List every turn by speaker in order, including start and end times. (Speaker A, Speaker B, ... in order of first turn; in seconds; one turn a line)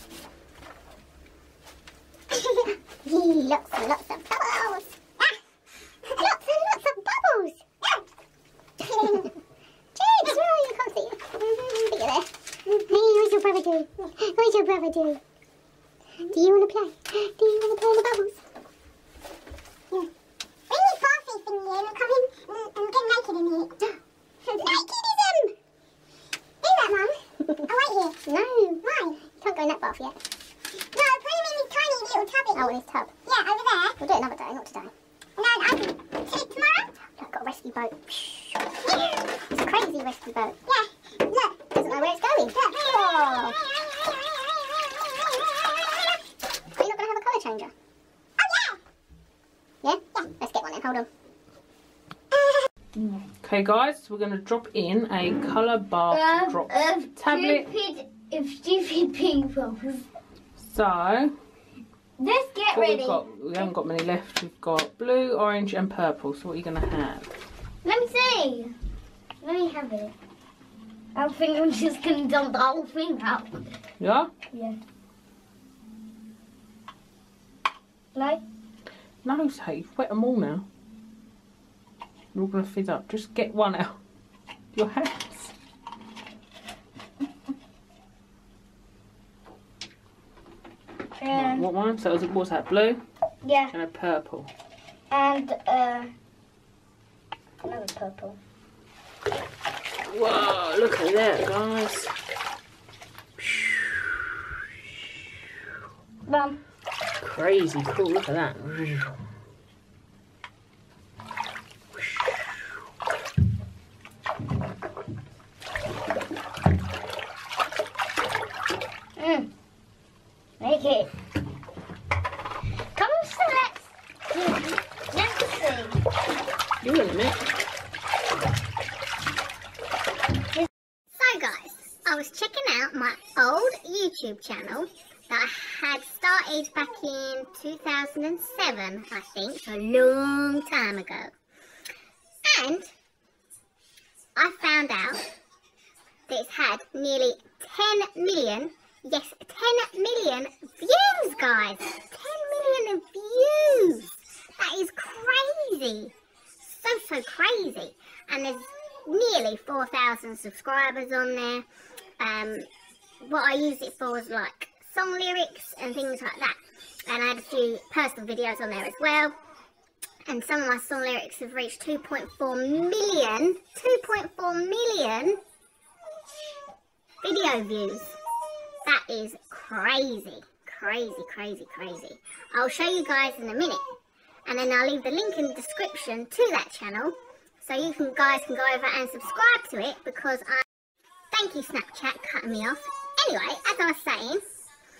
Speaker A: 2.5-5.2
Speaker A: 6.1-7.6
Speaker A: 8.8-9.3
Speaker A: 9.9-15.2
Speaker A: 16.2-18.4
Speaker A: 20.7-23.9
Speaker A: 24.4-25.5
Speaker A: 26.6-30.2
Speaker A: 30.9-40.8
Speaker A: 41.3-43.6
Speaker A: 46.7-47.7
Speaker A: 48.4-48.7
Speaker A: 49.8-51.1
Speaker B: 52.9-53.3
Speaker C: 53.4-57.7
Speaker B: 56.1-60.1
Speaker C: 60.6-61.3
Speaker B: 62.2-63.2
Speaker C: 62.7-67.3
Speaker B: 67.8-68.7
Speaker B: 69.4-70.1
Speaker B: 71.1-73.7
Speaker C: 74.0-74.3
Speaker B: 74.5-74.8
Speaker B: 78.1-78.4
Speaker C: 79.2-80.7
Speaker C: 82.3-84.0
Speaker C: 84.7-85.5
Speaker B: 91.2-91.6
Speaker C: 91.3-93.0
Speaker B: 93.4-93.7
Speaker C: 93.7-94.5
Speaker B: 95.1-96.1
Speaker B: 97.6-98.4
Speaker C: 100.0-102.1
Speaker C: 103.4-104.4
Speaker B: 106.3-106.6
Speaker C: 107.2-109.2
Speaker B: 119.2-119.5
Speaker B: 120.6-121.1
Speaker B: 122.9-126.0
Speaker C: 126.8-127.4
Speaker A: 131.2-141.3
Speaker A: 142.4-142.9
Speaker A: 144.3-145.2
Speaker A: 146.3-161.7
Speaker A: 162.2-162.7
Speaker A: 163.2-169.4
Speaker A: 170.2-175.4
Speaker A: 177.2-178.2
Speaker A: 178.8-183.8
Speaker A: 184.5-190.6
Speaker A: 191.3-194.4